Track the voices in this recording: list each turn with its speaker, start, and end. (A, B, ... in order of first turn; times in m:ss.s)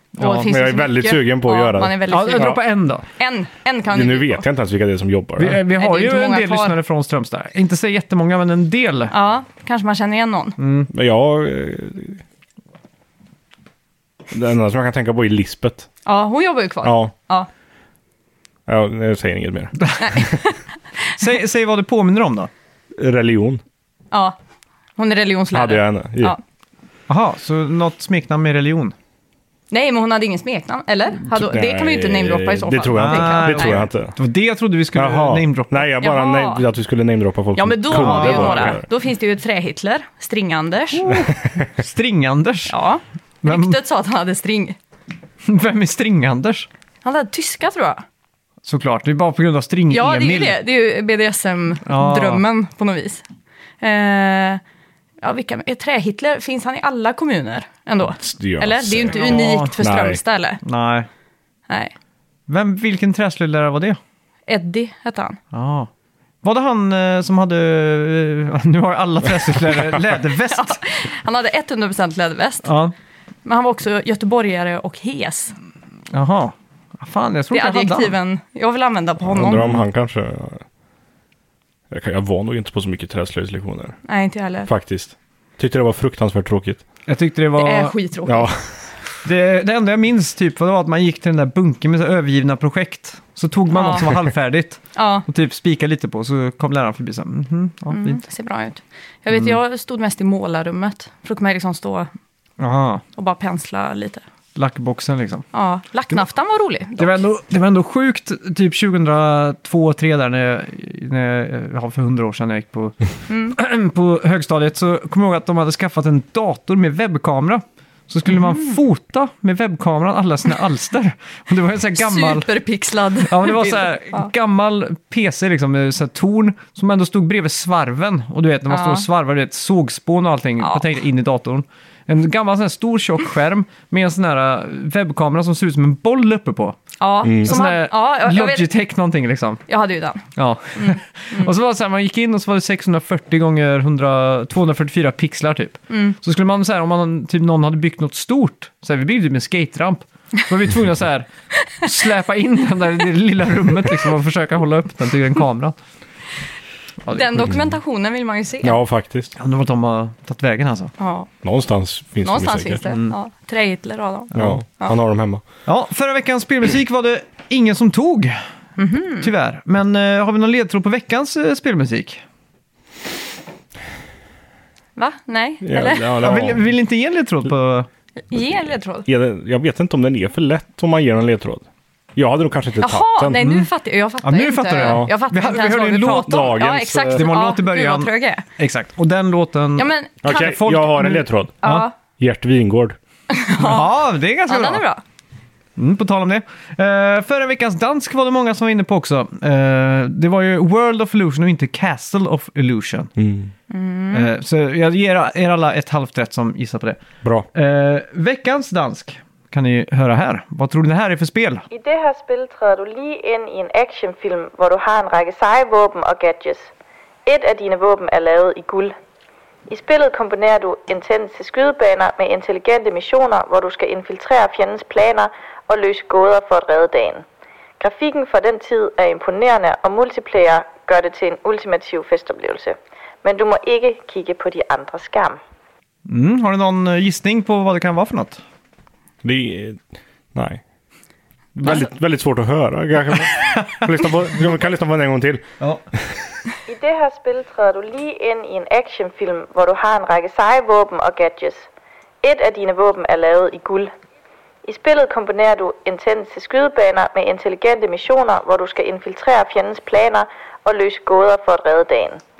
0:00.2-0:00.5 A
0:00.2-0:04.4 B
0:00.4-0:02.5 C
0:02.1-0:03.0 A
0:03.9-0:05.6 C
0:05.4-0:09.1 A
0:05.8-0:06.8 B
0:09.1-0:10.6 B
0:10.6-0:10.9 A
0:10.9-0:12.2 C
0:14.3-0:15.9 C
0:16.0-0:17.5 B
0:16.8-0:17.1 C
0:18.7-0:19.7 C
0:19.8-0:20.2 A
0:20.0-0:20.6 B
0:21.2-0:22.5 A
0:23.0-0:23.6 C
0:24.1-0:24.4 B
0:25.0-0:26.4 B
0:25.5-0:26.4 C
0:27.1-0:28.9 A
0:29.7-0:33.8 B
0:31.2-0:34.1 C
0:32.9-0:35.9 A
0:34.9-0:38.8 C
0:36.0-0:36.6 B
0:37.5-0:41.1 B
0:37.9-0:38.8 A
0:40.9-0:42.7 A
0:42.7-0:44.8 B
0:43.4-0:43.8 A
0:45.4-0:46.7 A
0:47.0-0:48.0 B
0:48.6-0:50.6 A
0:49.9-0:53.2 B
0:51.8-0:52.4 A
0:53.8-0:54.6 B
0:55.2-1:00.6 B
0:58.2-1:00.2 C
0:59.1-0:59.8 A
1:00.6-1:01.1 A
1:02.5-1:04.0 A
1:04.5-1:05.4 B
1:05.5-1:05.9 A
1:06.4-1:10.8 A
1:10.4-1:12.7 B
1:12.6-1:12.9 A
1:13.4-1:15.5 B
1:16.1-1:18.1 A
1:17.5-1:19.6 B
1:19.2-1:20.6 C
1:19.6-1:19.8 A
1:21.9-1:23.9 C
1:24.1-1:24.7 B
1:24.6-1:26.8 C
1:27.1-1:27.9 A
1:27.6-1:28.5 B
1:28.2-1:28.7 C
1:29.2-1:38.2 A
1:33.7-1:34.1 B
1:34.9-1:35.2 B
1:37.9-1:42.1 B
1:42.6-1:43.0 A
1:43.2-1:44.2 B
1:44.5-1:45.4 A
1:45.5-1:47.2 B
1:47.0-2:02.6 A
1:53.3-1:53.6 B
1:58.3-1:58.7 B
2:02.0-2:04.3 B
2:03.2-2:16.8 A
2:08.7-2:09.1 B
2:17.0-2:18.7 B
2:17.2-2:17.5 C
2:17.4-2:19.6 A
2:19.7-2:21.5 B
2:20.3-2:31.3 A
2:25.9-2:26.2 B
2:31.8-2:35.8 A
2:37.0-2:37.5 A
2:37.1-2:38.8 B
2:38.6-2:39.3 C
2:39.4-2:40.9 A
2:41.0-2:41.3 B
2:41.4-2:42.8 C
2:42.2-2:45.0 B
2:42.9-2:43.2 A
2:44.3-2:45.4 C
2:45.6-2:48.4 A
2:48.8-2:49.3 B
2:49.2-2:52.2 A
2:55.0-2:56.2 B
2:55.6-2:56.6 C
2:56.2-2:57.9 A
2:58.3-2:59.1 B
2:59.0-3:03.4 C
3:02.8-3:08.4 B
3:03.4-3:03.7 A
3:04.2-3:06.4 A
3:04.8-3:05.1 C
3:06.3-3:07.3 C
3:07.1-3:11.9 A
3:09.8-3:10.6 B
3:10.2-3:11.6 C
3:11.6-3:11.9 B
3:12.2-3:13.0 C
3:13.3-3:15.0 B
3:13.6-3:14.8 A
3:15.8-3:23.1 A
3:23.2-3:23.5 C
3:23.7-3:24.3 B
3:24.1-3:27.0 A
3:27.5-3:31.6 A
3:31.7-3:36.7 D
3:37.2-3:38.9 D
3:39.7-3:47.2 D
3:47.8-3:55.4 D
3:56.0-3:58.4 A
3:59.2-3:59.8 C
4:00.3-4:00.6 C
4:01.6-4:05.4 C
4:03.3-4:03.8 A
4:06.7-4:11.7 D
4:12.2-4:13.9 D
4:14.6-4:22.2 D